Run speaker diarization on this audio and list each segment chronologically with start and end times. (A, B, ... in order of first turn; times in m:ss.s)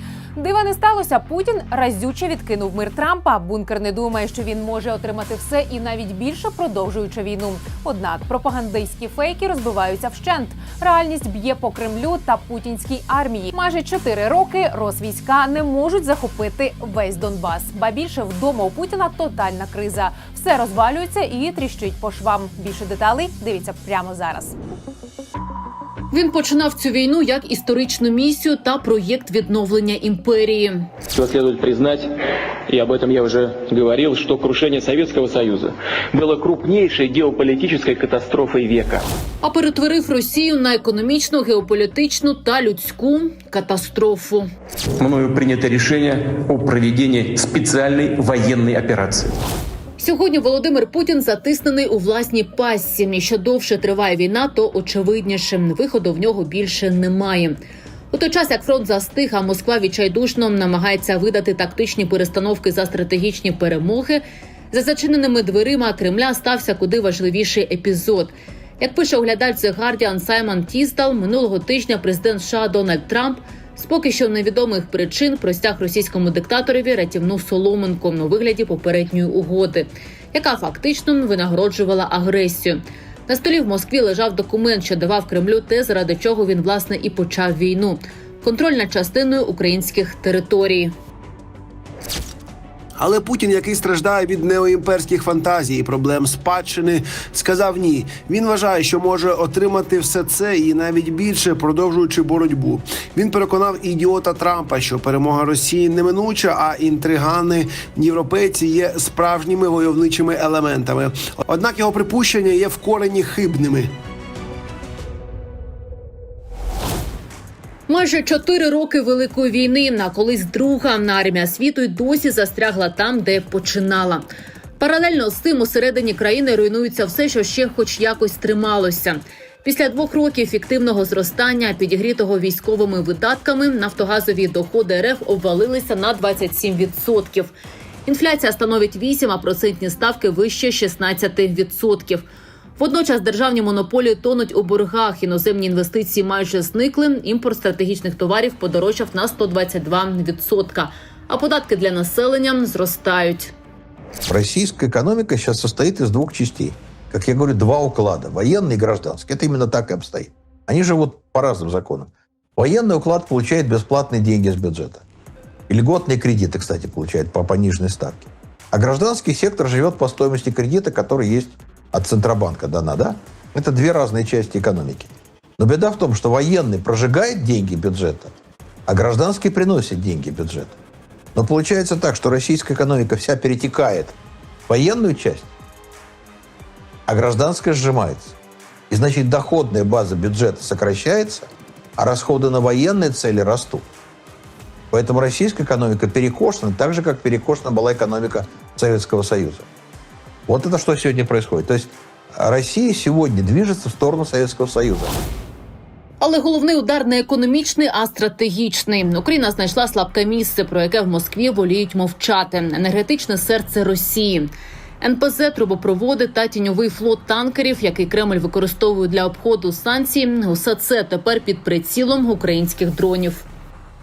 0:00.4-0:24.6 A
0:26.1-0:30.9 B
0:31.1-0:32.1 C
0:32.7-0:39.1 C
0:39.4-0:44.5 B
0:45.0-0:49.4 D
0:50.0-0:57.6 B
0:58.1-1:30.9 B
1:33.0-1:53.9 E
1:57.9-2:04.2 B
2:04.8-2:17.5 B
2:18.0-2:22.2 B
2:22.8-2:33.5 B
2:34.3-2:45.0 F
2:45.7-2:58.3 F
2:58.9-3:00.8 F
3:01.3-3:04.2 F
3:04.7-3:05.5 F
3:07.1-3:08.4 F
3:08.9-3:13.8 F
3:14.9-3:19.7 F
3:20.5-3:25.2 F
3:26.2-3:43.4 B